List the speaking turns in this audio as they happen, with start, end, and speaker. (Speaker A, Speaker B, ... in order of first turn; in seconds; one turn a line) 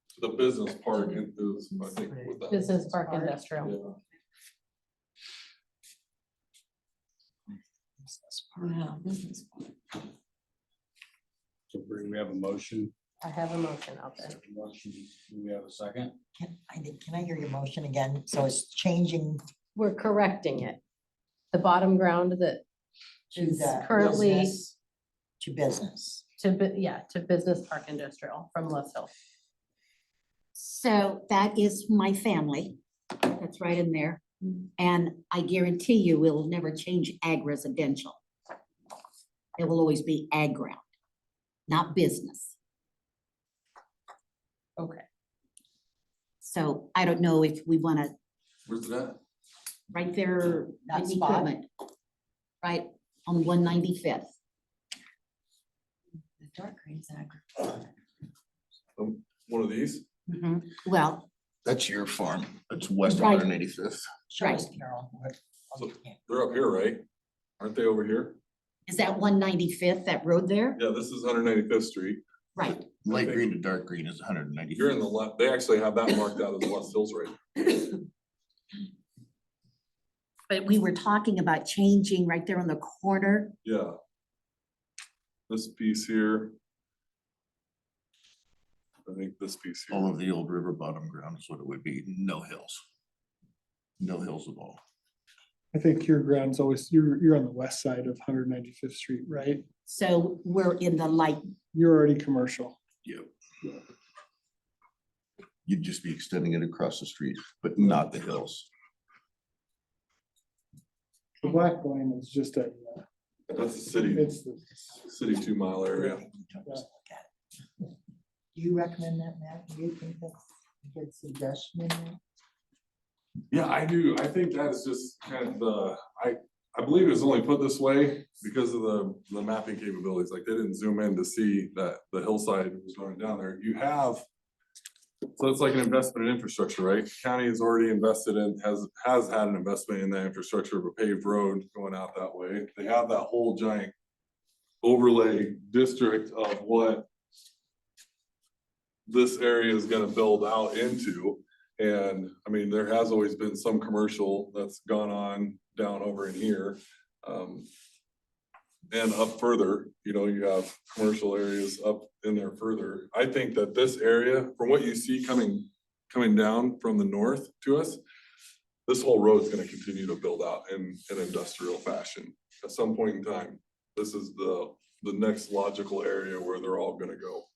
Speaker A: 0.1-2.7
Speaker B: 0.9-3.4
Speaker C: 2.5-3.7
Speaker A: 3.6-4.0
Speaker D: 8.1-8.8
Speaker B: 8.6-9.8
Speaker E: 11.7-12.9
Speaker C: 13.2-14.4
Speaker E: 14.4-16.2
Speaker D: 16.4-19.4
Speaker C: 19.7-20.8
Speaker C: 21.5-22.6
Speaker D: 23.3-24.7
Speaker C: 23.4-24.6
Speaker D: 25.4-26.2
Speaker C: 26.4-29.1
Speaker F: 30.5-38.2
Speaker F: 39.6-40.8
Speaker F: 41.7-42.5
Speaker C: 44.8-45.0
Speaker F: 46.4-48.1
Speaker A: 48.6-49.2
Speaker F: 49.9-51.7
Speaker C: 50.9-51.5
Speaker F: 52.6-54.3
Speaker B: 56.4-57.9
Speaker A: 59.0-60.0
Speaker F: 60.3-61.3
Speaker G: 61.6-64.1
Speaker F: 63.0-63.5
Speaker D: 64.3-66.2
Speaker F: 64.4-64.7
Speaker A: 65.8-67.0
Speaker A: 67.6-68.4
Speaker F: 68.9-70.8
Speaker A: 70.7-72.2
Speaker F: 72.5-72.9
Speaker G: 72.9-75.0
Speaker A: 73.0-73.5
Speaker A: 74.7-77.3
Speaker F: 80.5-83.5
Speaker A: 83.6-84.0
Speaker A: 85.5-86.5
Speaker A: 89.0-90.1
Speaker G: 89.9-92.8
Speaker G: 94.0-94.8
Speaker H: 95.7-99.7
Speaker F: 99.9-101.4
Speaker H: 101.7-102.8
Speaker G: 105.7-108.7
Speaker H: 111.4-113.0
Speaker A: 113.5-114.3
Speaker H: 114.0-114.9
Speaker A: 115.0-116.2
Speaker D: 115.9-117.3
Speaker D: 118.5-122.2
Speaker A: 123.5-134.2
Speaker A: 135.3-143.9
Speaker A: 144.8-147.1
Speaker A: 149.1-157.7
Speaker A: 158.9-168.0
Speaker A: 168.9-177.5